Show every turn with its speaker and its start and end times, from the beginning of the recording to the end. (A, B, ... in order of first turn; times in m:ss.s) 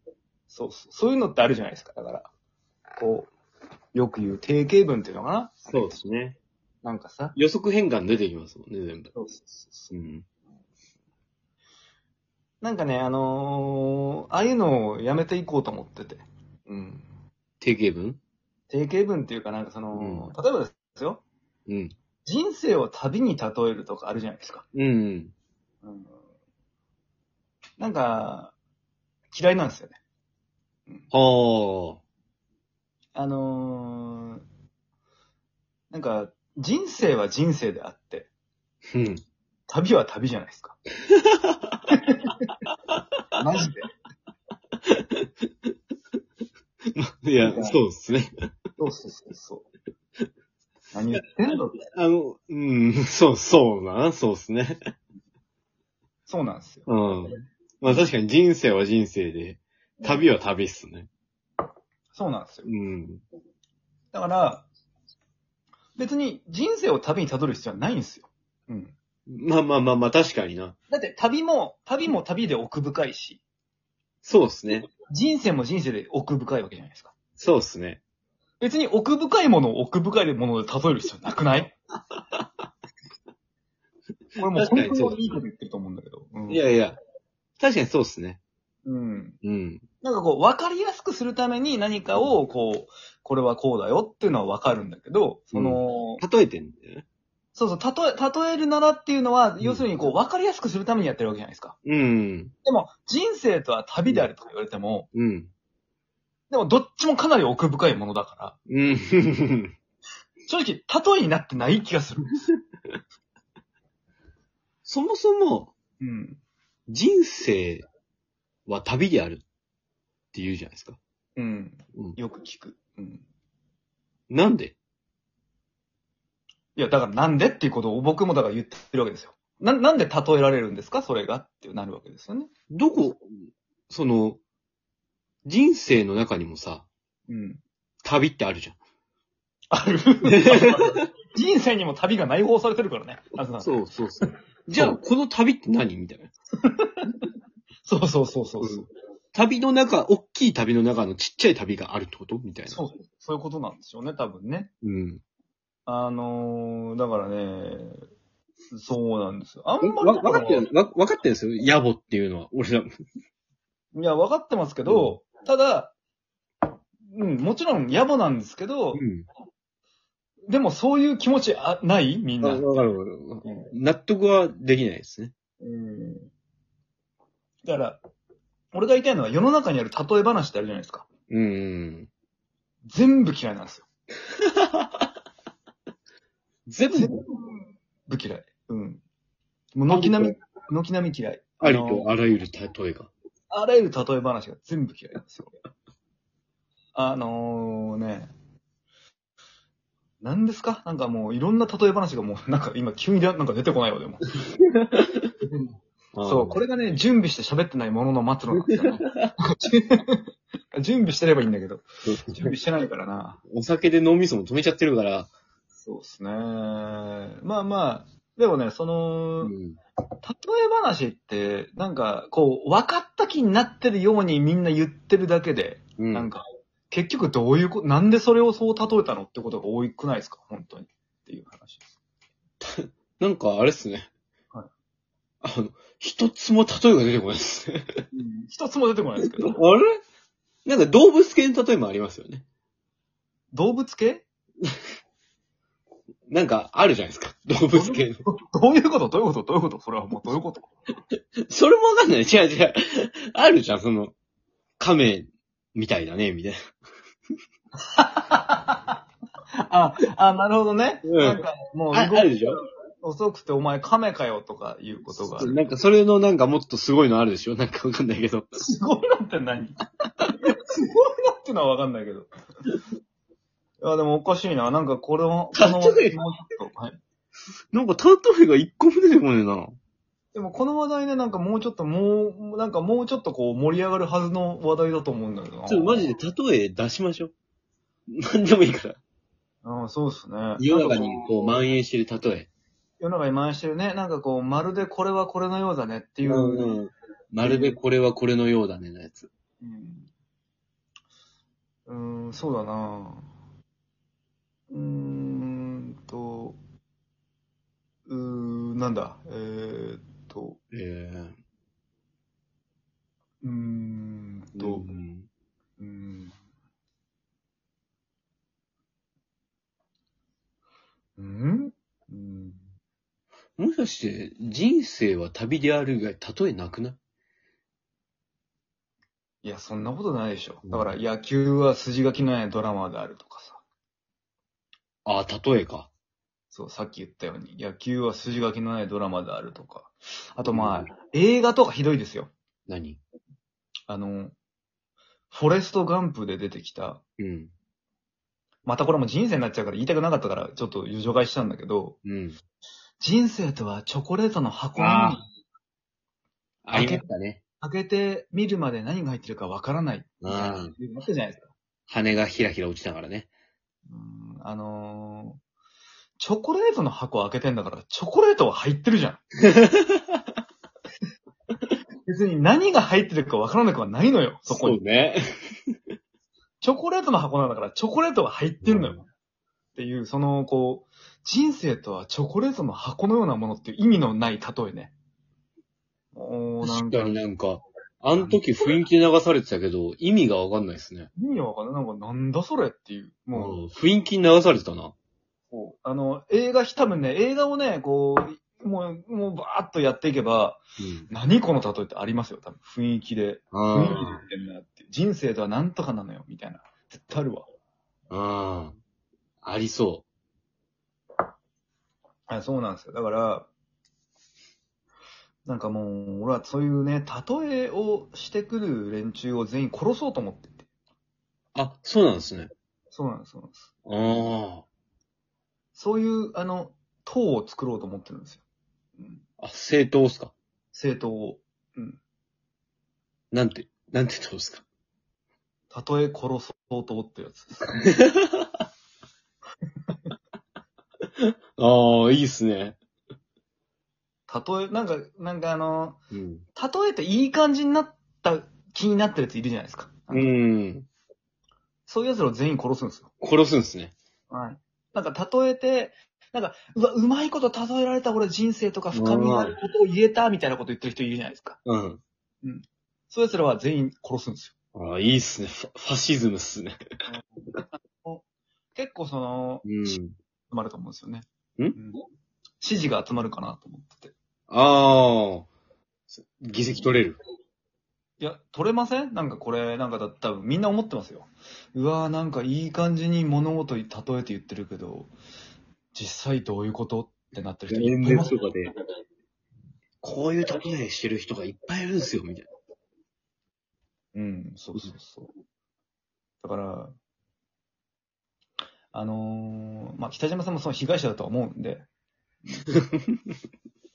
0:00.5-0:02.3 A
0:03.0-0:03.3 A
0:03.9-0:05.9 A
0:05.7-0:06.4 B
0:06.8-0:07.4 A
0:07.3-0:09.1 B
0:09.1-0:09.9 A
0:09.9-0:10.2 B
0:12.6-0:17.1 A
0:17.6-0:18.2 B
0:18.7-0:21.2 A
0:19.9-0:20.3 B
0:21.7-0:21.9 B
0:22.2-0:24.6 A
0:24.7-0:25.3 B
0:25.8-0:26.1 A
0:27.8-0:28.5 A
0:29.3-0:30.0 A
0:31.1-0:32.0 B
0:33.1-0:34.4 A
0:35.9-0:38.3 A
0:38.9-0:39.2 B
0:39.7-0:40.8 A
0:41.5-0:41.7 B
0:41.9-0:42.5 A
0:43.4-0:43.8 A
0:44.9-0:45.2 B
0:47.0-0:48.3 B
0:47.4-0:47.8 A
0:48.8-0:49.7 A
0:50.9-0:51.7 A
0:51.9-0:54.8 B
0:56.3-0:58.1 A
0:56.9-1:01.1 B
1:00.0-1:00.3 A
1:02.1-1:02.7 A
1:02.6-1:03.2 B
1:04.1-1:04.6 A
1:06.0-1:08.9 A
1:09.3-1:10.8 B
1:10.9-1:13.4 A
1:14.2-1:14.9 B
1:15.1-1:17.1 A
1:17.4-1:18.0 B
1:18.6-1:21.7 A
1:24.4-1:26.6 A
1:24.5-1:25.4 B
1:26.5-1:27.0 B
1:27.6-1:28.4 B
1:28.8-1:29.4 A
1:29.4-1:29.8 B
1:30.0-1:36.2 A
1:35.5-1:37.0 B
1:37.5-1:41.8 A
1:39.6-1:39.9 B
1:41.8-1:42.5 B
1:42.6-1:45.1 A
1:45.1-1:45.5 B
1:46.5-1:48.6 A
1:48.7-1:49.7 B
1:50.5-1:52.4 A
1:54.8-1:55.7 B
1:56.0-1:56.4 A
1:56.9-1:57.8 B
1:58.7-1:59.4 B
2:00.3-2:01.0 B
2:01.4-2:03.2 A
2:04.3-2:04.8 B
2:06.8-2:12.5 A
2:12.7-2:14.4 B
2:15.4-2:16.9 B
2:17.3-2:17.6 A
2:18.0-2:18.8 B
2:19.7-2:25.0 A
2:20.2-2:21.0 B
2:23.6-2:26.3 B
2:26.6-2:27.1 A
2:27.8-2:28.9 A
2:29.3-2:32.8 B
2:32.7-2:34.7 A
2:34.8-2:35.2 B
2:35.9-2:38.0 A
2:38.7-2:40.7 A
2:39.8-2:42.9 B
2:43.9-2:45.9 A
2:44.9-2:45.2 B
2:47.1-2:49.0 A
2:48.9-2:49.2 B
2:50.5-2:53.7 A
2:52.4-2:55.3 B
2:55.6-2:56.3 A
2:57.6-2:58.0 A
2:58.7-3:01.0 A
3:01.3-3:02.1 B
3:02.8-3:03.8 A
3:06.7-3:07.2 B
3:06.9-3:09.0 A
3:09.7-3:12.1 A
3:09.9-3:10.3 B
3:11.6-3:13.1 B
3:13.5-3:15.5 A
3:16.9-3:18.3 A
3:20.2-3:24.3 A
3:25.4-3:33.4 A
3:26.1-3:26.6 B
3:28.5-3:29.3 B
3:32.0-3:32.5 B
3:33.5-3:35.3 B
3:35.8-3:39.5 A
3:39.4-3:39.8 B
3:40.2-3:51.8 A
3:46.0-3:46.3 B
3:52.6-3:54.1 B
3:55.4-3:57.8 B
3:58.1-3:59.6 A
3:59.4-4:00.0 B
4:00.6-4:02.4 B
4:03.5-4:04.2 A
4:06.3-4:08.2 B
4:07.7-4:10.7 A
4:11.5-4:14.1 B
4:14.8-4:16.6 B
4:17.9-4:18.8 A
4:19.6-4:25.6 A
4:21.0-4:22.6 B
4:25.2-4:28.5 B
4:28.6-4:29.8 A
4:30.5-4:32.3 A
4:33.8-4:37.0 A
4:35.5-4:36.2 B
4:37.7-4:39.7 B
4:40.3-4:46.0 A
4:45.7-4:47.3 B
4:48.2-4:49.0 B
4:49.6-4:51.6 A
4:50.6-4:52.5 B
4:53.0-4:56.8 A
4:56.2-4:59.3 B
4:57.4-4:57.8 A
4:59.6-5:00.1 A
5:01.9-5:03.3 A
5:04.7-5:06.6 A
5:08.1-5:10.6 A
5:10.7-5:11.3 B
5:13.4-5:14.9 A
5:14.6-5:15.3 B
5:15.8-5:16.3 A
5:21.2-5:22.6 A
5:23.6-5:27.0 B
5:29.4-5:33.6 A
5:30.6-5:30.9 B
5:35.0-5:35.9 B
5:36.5-5:42.3 A
5:40.5-5:40.9 B
5:42.7-5:43.0 B
5:43.9-5:44.3 A
5:45.3-5:47.0 A
5:47.2-5:47.5 B
5:48.6-5:52.0 A
5:52.0-5:52.4 B
5:53.0-5:55.2 A
5:54.8-5:55.2 B
5:56.6-5:57.4 B
5:56.7-5:57.0 A
5:57.6-6:01.5 A
6:00.2-6:00.7 B
6:01.9-6:03.3 B
6:03.9-6:05.4 A
6:06.2-6:09.2 A
6:09.4-6:10.0 B
6:12.0-6:14.8 A
6:14.5-6:15.2 B
6:16.6-6:19.0 A
6:18.6-6:19.0 B
6:19.8-6:24.9 A
6:26.1-6:27.2 A
6:26.6-6:31.1 B
6:28.1-6:28.4 A
6:31.2-6:33.6 A
6:33.3-6:34.9 B
6:35.5-6:47.5 A
6:40.8-6:41.1 B
6:43.5-6:44.2 B
6:48.1-6:48.8 B
6:49.4-6:50.0 B
6:52.3-6:53.5 A
6:55.4-7:00.7 A
7:01.5-7:02.5 B
7:02.9-7:03.7 A
7:03.8-7:04.6 B
7:05.7-7:08.4 A
7:09.0-7:09.2 A
7:09.4-7:10.3 B
7:10.7-7:12.0 A
7:13.3-7:14.6 B
7:15.7-7:17.8 A
7:17.8-7:18.5 B
7:21.2-7:22.8 B
7:24.3-7:26.0 A
7:26.1-7:26.4 B
7:26.6-7:30.3 A
7:30.1-7:30.9 B
7:31.9-7:33.1 A
7:33.2-7:33.9 B
7:34.3-7:41.6 A
7:38.9-7:39.6 B
7:41.6-7:42.0 B
7:42.4-7:44.5 A
7:44.7-7:46.8 B
7:47.1-7:48.2 A
7:48.7-7:49.7 A
7:49.6-7:50.2 B
7:50.5-7:52.0 A
7:52.6-7:54.1 A
7:54.5-7:55.5 B
7:56.1-7:57.2 B
7:58.2-8:05.1 A
8:05.9-8:08.3 A
8:07.7-8:08.7 B
8:10.0-8:12.5 B
8:14.1-8:15.3 A
8:16.4-8:16.9 A
8:18.9-8:21.8 A